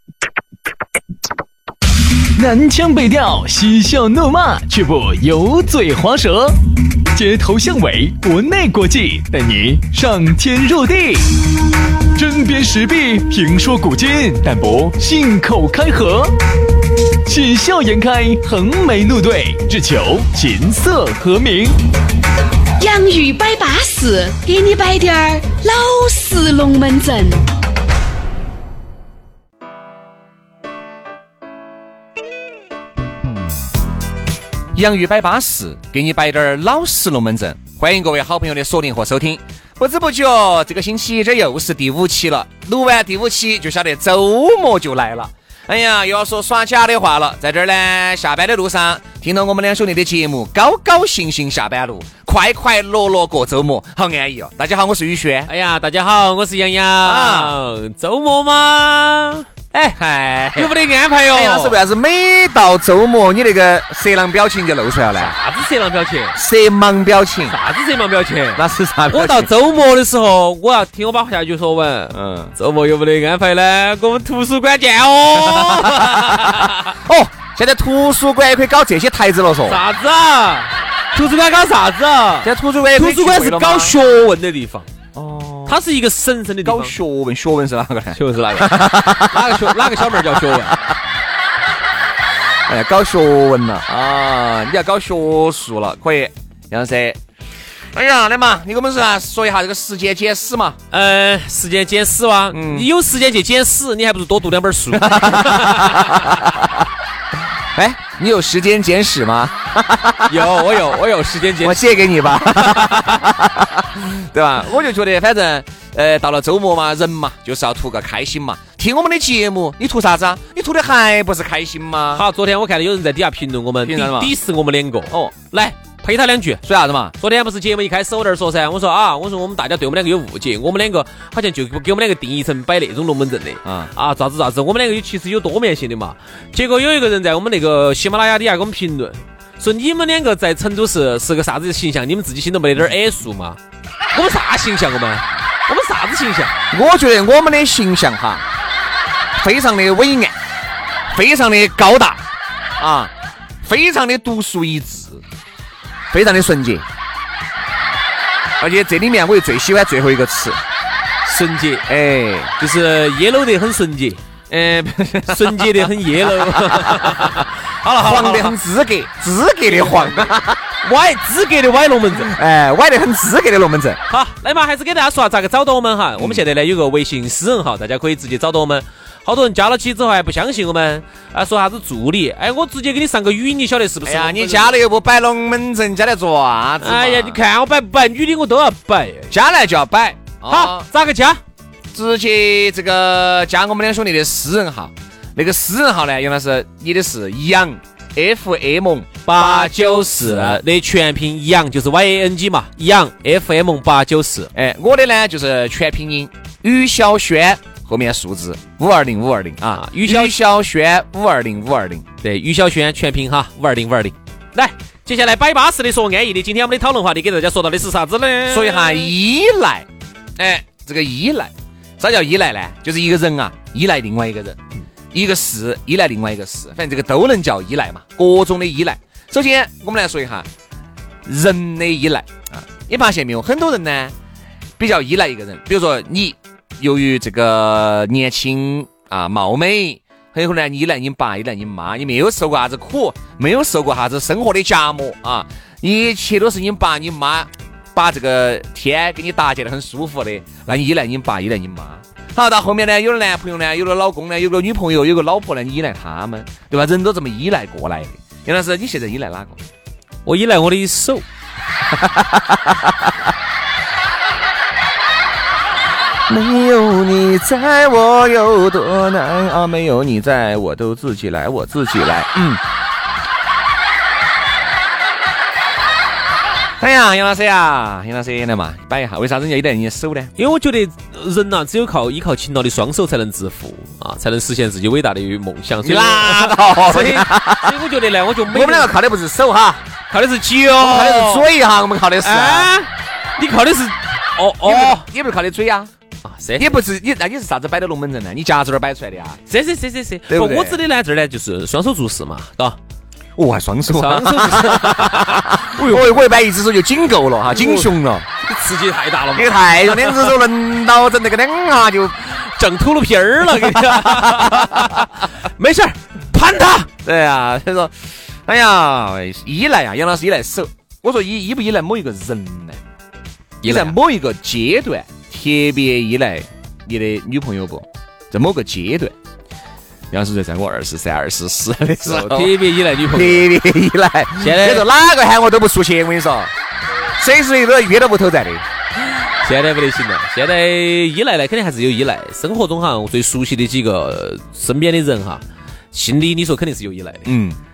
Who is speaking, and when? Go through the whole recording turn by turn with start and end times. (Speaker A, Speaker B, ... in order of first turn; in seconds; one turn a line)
Speaker A: 2.3-11.5
Speaker A: 12.1-16.4
Speaker A: 17.2-21.8
Speaker B: 22.8-27.4
Speaker C: 34.7-55.5
Speaker D: 55.5-60.0
Speaker C: 57.0-57.5
Speaker C: 59.9-60.7
Speaker D: 60.5-61.8
Speaker C: 61.3-65.3
Speaker D: 65.2-66.4
Speaker C: 66.3-67.6
Speaker D: 67.5-76.9
Speaker C: 68.5-69.5
Speaker C: 72.1-72.5
Speaker C: 75.4-79.8
Speaker D: 79.7-84.9
Speaker C: 82.4-84.0
Speaker C: 85.1-85.8
Speaker D: 85.7-86.9
Speaker C: 86.6-90.6
Speaker D: 88.1-90.9
Speaker C: 92.7-97.2
Speaker C: 97.9-100.8
Speaker D: 100.9-106.6
Speaker C: 102.5-102.9
Speaker C: 104.9-106.3
Speaker C: 107.7-110.5
Speaker D: 110.3-113.2
Speaker C: 111.6-122.2
Speaker D: 122.1-126.6
Speaker C: 123.8-124.3
Speaker C: 126.6-127.2
Speaker D: 127.2-143.6
Speaker C: 133.6-133.9
Speaker D: 144.1-146.6
Speaker C: 146.7-148.4
Speaker C: 149.4-150.3
Speaker C: 151.1-152.2
Speaker C: 152.8-153.1
Speaker C: 153.6-155.2
Speaker C: 156.1-156.8
Speaker C: 158.6-160.6
Speaker D: 161.2-161.9
Speaker C: 161.9-162.5
Speaker D: 162.6-164.2
Speaker C: 164.5-167.4
Speaker D: 165.3-168.6
Speaker C: 168.0-170.6
Speaker D: 169.7-172.3
Speaker C: 172.1-174.0
Speaker D: 174.1-184.8
Speaker C: 176.2-176.4
Speaker C: 184.0-187.4
Speaker D: 186.8-189.3
Speaker C: 189.3-190.8
Speaker D: 190.5-191.4
Speaker C: 191.9-200.6
Speaker D: 199.2-204.5
Speaker C: 204.5-212.1
Speaker D: 209.7-210.4
Speaker D: 212.2-219.1
Speaker C: 218.5-219.8
Speaker C: 220.4-224.6
Speaker C: 225.1-230.5
Speaker C: 231.2-234.1
Speaker C: 234.8-259.6
Speaker D: 260.2-261.2
Speaker C: 262.0-262.7
Speaker C: 266.3-272.6
Speaker C: 276.8-280.3
Speaker D: 280.4-288.9
Speaker C: 285.8-287.7
Speaker C: 288.5-289.8
Speaker D: 290.1-291.5
Speaker C: 290.8-292.7
Speaker D: 292.2-295.1
Speaker C: 294.6-295.9
Speaker D: 296.2-296.8
Speaker C: 296.6-299.4
Speaker D: 299.5-302.8
Speaker C: 300.3-300.8
Speaker C: 303.4-308.3
Speaker D: 303.9-306.2
Speaker D: 307.5-310.4
Speaker C: 309.3-312.2
Speaker D: 312.2-316.9
Speaker C: 313.7-314.6
Speaker C: 317.0-322.8
Speaker D: 323.6-323.9
Speaker C: 323.6-329.1
Speaker C: 330.1-332.6
Speaker D: 332.0-333.5
Speaker C: 333.1-336.5
Speaker D: 334.4-334.9
Speaker C: 337.1-338.6
Speaker D: 339.2-347.2
Speaker C: 347.2-347.6